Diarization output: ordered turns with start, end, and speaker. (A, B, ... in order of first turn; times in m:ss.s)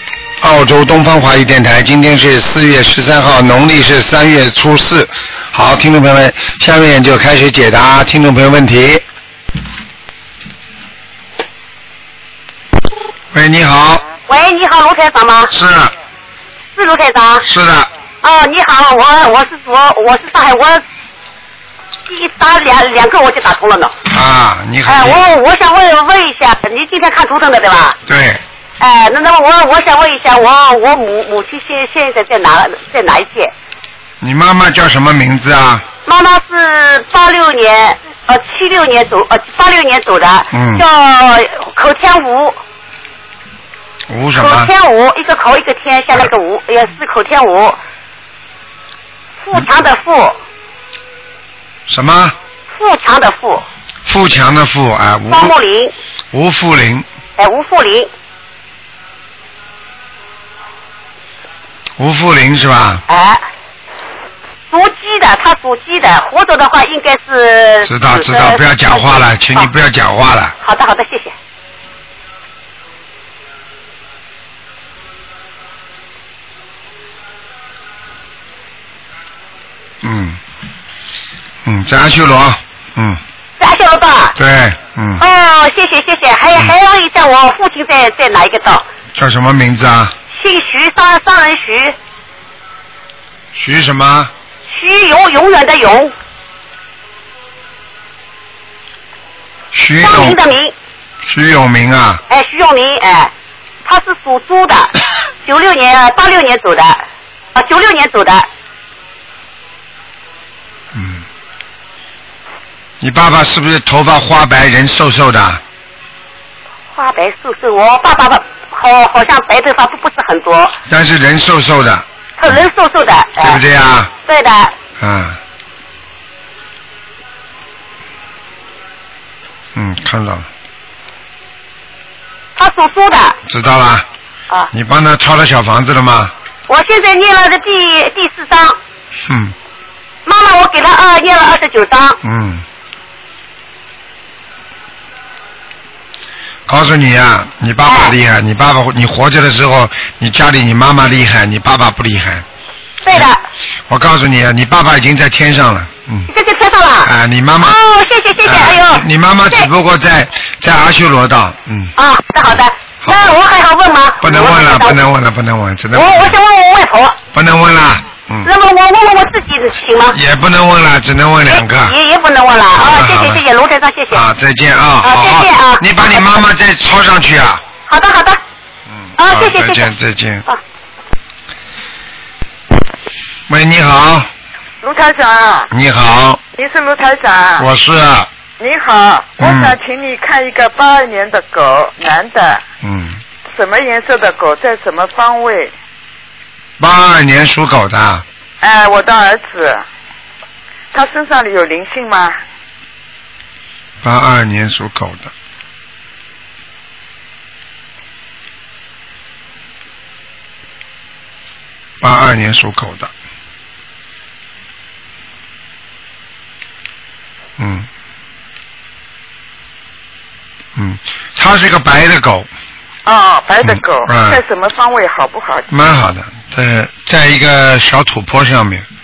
0:00.4-0:09.0 A
0:13.3-0:14.0 A
0:14.3-0:15.5 B
0:15.5-0:15.9 A
0:16.8-0:17.4 B
0:17.4-0:17.9 A
0:18.2-0:20.8 B
0:22.1-0:23.9 B
0:24.1-0:25.2 A
0:24.8-0:28.0 B
0:28.1-0:28.4 A
0:28.8-0:33.5 B
0:34.2-0:35.8 A
0:36.0-0:42.6 B
0:40.5-0:40.8 A
0:44.1-0:44.7 A
0:44.3-0:47.8 B
0:49.4-0:50.3 B
0:51.9-0:52.4 A
0:52.7-0:53.6 B
0:54.0-0:55.5 A
0:55.3-0:55.9 B
0:56.3-0:57.0 A
0:57.4-0:58.1 B
1:02.0-1:03.0 A
1:03.1-1:03.4 B
1:04.7-1:09.7 B
1:07.8-1:10.6 A
1:10.6-1:11.3 B
1:20.0-1:20.4 A
1:21.6-1:23.2 A
1:23.6-1:24.3 B
1:24.4-1:25.2 A
1:25.2-1:28.8 B
1:29.1-1:30.1 A
1:30.3-1:31.9 B
1:33.5-1:34.3 A
1:34.7-1:36.1 B
1:39.7-1:40.4 A
1:40.0-1:40.7 B
1:41.2-1:42.2 A
1:42.3-1:43.3 B
1:43.8-1:44.9 B
1:45.4-1:47.0 B
1:47.5-1:48.5 B
1:50.9-1:51.2 A
1:53.0-1:55.6 A
1:56.9-2:00.8 B
2:00.9-2:02.6 A
2:02.4-2:03.6 B
2:03.4-2:04.1 A
2:04.2-2:04.7 B
2:05.0-2:05.4 A
2:09.7-2:10.5 A
2:12.6-2:13.4 B
2:13.5-2:14.0 A
2:14.7-2:16.3 A
2:16.7-2:18.8 B
2:19.3-2:19.5 A
2:20.2-2:22.2 B
2:22.2-2:22.6 A
2:26.7-2:32.4 A
2:27.8-2:28.1 B
2:33.0-2:33.4 B
2:33.9-2:36.3 A
2:36.3-2:39.7 B
2:37.0-2:37.8 A
2:38.4-2:41.9 A
2:42.0-2:45.0 B
2:43.0-2:43.3 A
2:44.2-2:46.4 A
2:45.9-2:47.2 B
2:47.3-2:48.5 A
2:48.4-2:50.2 B
2:50.1-2:52.0 A
2:51.5-2:54.2 B
2:52.8-2:53.4 A
2:54.1-2:57.6 A
2:55.0-2:56.3 B
2:57.9-2:58.4 B
2:58.9-3:00.4 A
2:59.2-2:59.9 B
3:03.5-3:04.3 A
3:04.8-3:05.7 C
3:05.7-3:06.4 A
3:06.6-3:07.7 C
3:07.6-3:08.3 A
3:08.6-3:12.6 C
3:09.4-3:09.8 A
3:12.8-3:13.2 A
3:13.5-3:15.7 C
3:16.8-3:18.2 A
3:18.6-3:19.8 C
3:20.9-3:22.4 C
3:24.0-3:25.3 A
3:32.0-3:33.1 A
3:37.6-3:37.9 A
3:40.8-3:42.5 A
3:43.0-3:45.7 C
3:43.6-3:44.4 A
3:45.7-3:48.9 A